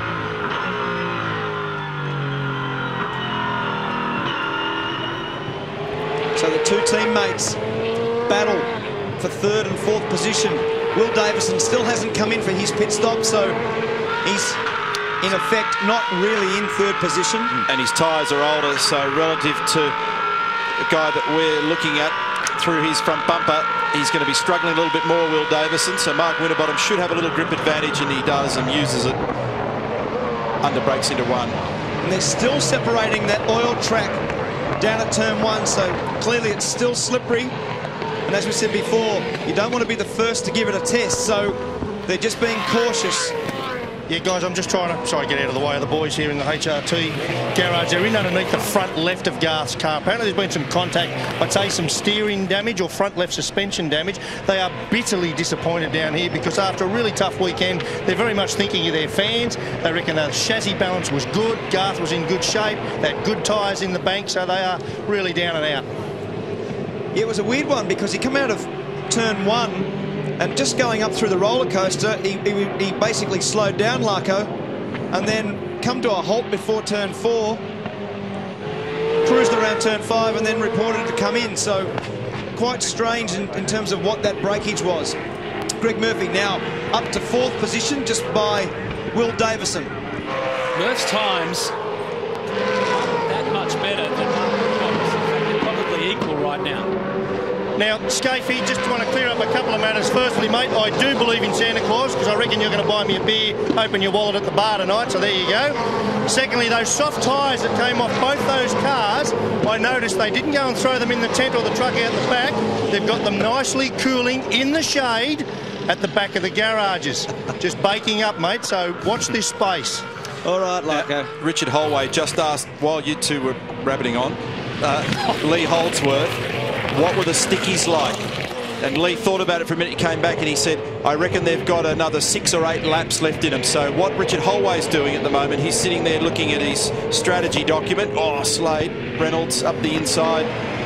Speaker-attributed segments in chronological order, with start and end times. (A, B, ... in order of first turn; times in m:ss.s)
0:06.4-0:07.6 A
0:08.3-0:13.6 A
0:14.2-0:14.6 A
0:15.2-0:17.6 A
0:17.7-0:19.9 B
0:20.8-0:29.2 B
0:30.6-0:31.6 B
0:32.0-0:34.2 A
0:34.8-0:37.6 A
0:38.3-0:43.3 A
0:44.1-1:05.8 C
1:07.1-1:14.5 A
1:15.1-1:17.6 A
1:19.2-1:21.9 A
1:22.6-1:25.2 A
1:25.8-1:29.9 A
1:30.8-1:31.7 D
1:33.0-1:36.9 D
1:37.8-2:00.0 C
2:00.4-2:01.3 A
2:00.9-2:06.4 B
2:06.9-2:08.2 B
2:08.8-2:20.5 B